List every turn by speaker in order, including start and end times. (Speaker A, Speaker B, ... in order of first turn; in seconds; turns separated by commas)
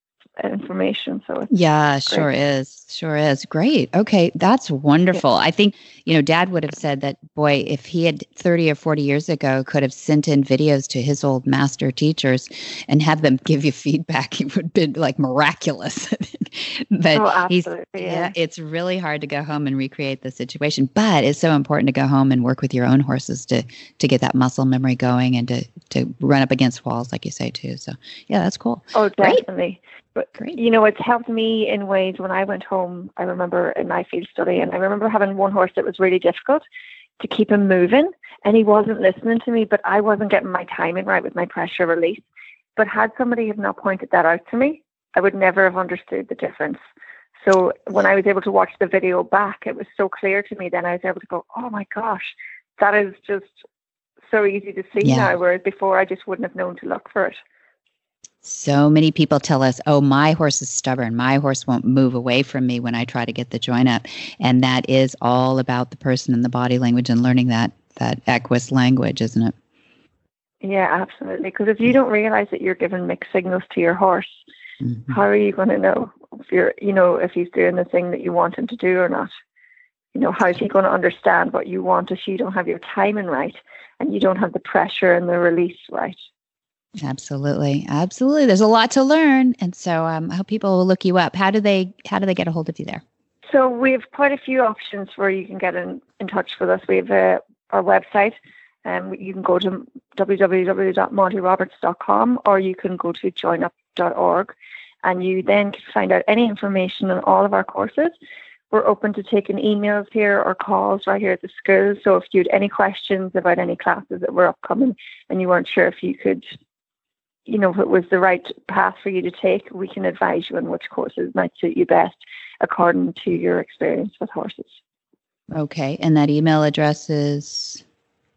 Speaker A: 0.4-1.5, Speaker B: 1.5-29.4, Speaker A: 17.1-18.3, Speaker A: 28.9-36.6, Speaker A: 37.2-42.2, Speaker A: 42.8-46.8, Speaker A: 47.4-53.6, Speaker A: 54.3-57.4, Speaker B: 55.0-55.3, Speaker B: 58.4-69.5, Speaker A: 70.6-74.4, Speaker A: 75.1-79.3, Speaker A: 80.1-86.2, Speaker B: 87.0-93.0, Speaker A: 93.5-104.5, Speaker A: 105.0-108.2, Speaker A: 108.7-116.5, Speaker A: 117.5-124.8, Speaker B: 125.5-127.8